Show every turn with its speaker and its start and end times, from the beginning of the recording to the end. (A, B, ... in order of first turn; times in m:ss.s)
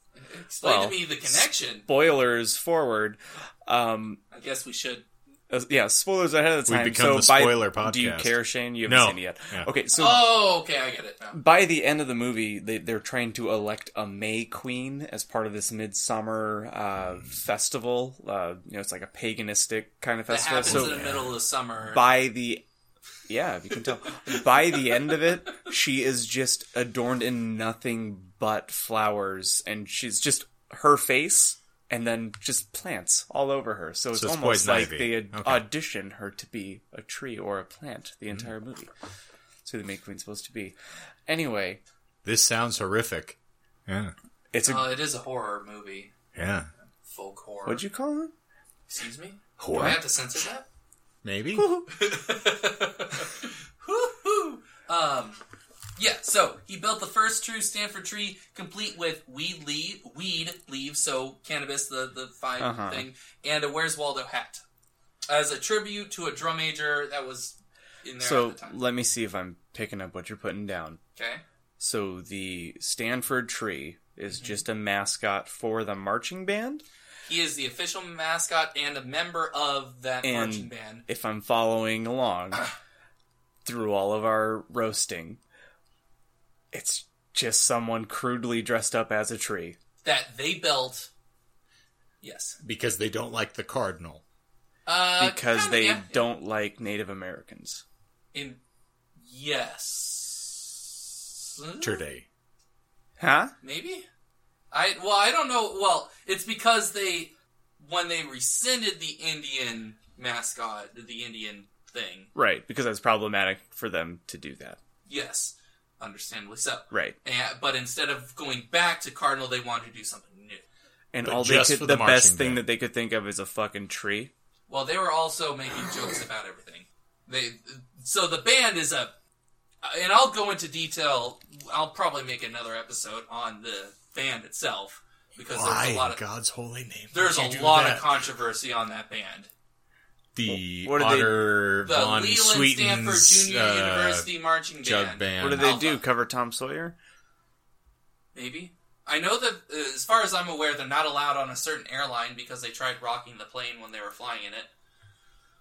0:00.2-0:01.9 A
0:00.6-0:04.2 B
0:04.3-0:05.0 A
0:05.5-0:10.3 B
0:06.7-0:09.7 C
0:10.0-0:11.4 A
0:11.3-0:21.1 B
0:20.3-0:22.1 A
0:20.6-0:21.4 C
0:21.9-0:22.6 B
0:23.3-0:38.9 B
0:34.1-0:35.7 C
0:39.6-0:41.8 B
0:42.2-0:44.1 C
0:44.5-0:44.9 B
0:44.7-0:46.2 A
0:46.4-0:46.7 C
0:46.9-0:47.8 A
0:47.7-0:48.3 B
0:48.9-0:50.6 A
0:49.6-0:50.0 C
0:51.2-0:51.7 C
0:51.6-0:51.9 B
0:51.9-0:55.4 A
0:56.0-1:04.6 A
1:02.6-1:03.1 B
1:05.3-1:08.8 A
1:08.2-1:11.0 B
1:11.2-1:11.4 A
1:11.8-1:16.8 B
1:14.3-1:14.6 A
1:17.3-1:21.0 A
1:20.2-1:22.7 B
1:23.6-1:25.4 B
1:26.7-1:29.8 B
1:30.0-1:31.1 A
1:32.2-1:32.6 A
1:32.6-1:34.2 C
1:34.9-1:36.2 A
1:35.2-1:37.8 B
1:38.3-1:38.6 A
1:39.2-1:42.0 A
1:41.8-1:42.3 C
1:43.2-1:43.5 B
1:43.6-1:44.0 A
1:44.7-1:52.3 A
1:52.4-1:54.8 B
1:55.1-2:00.6 A
2:01.1-2:04.3 B
2:01.2-2:02.6 C
2:04.7-2:09.1 A
2:09.8-2:16.2 A
2:15.5-2:18.2 C
2:17.1-2:19.5 A
2:20.4-2:24.3 C
2:20.5-2:21.4 B
2:21.8-2:26.0 A
2:24.8-2:25.8 C
2:25.4-2:27.0 B
2:28.4-2:34.7 A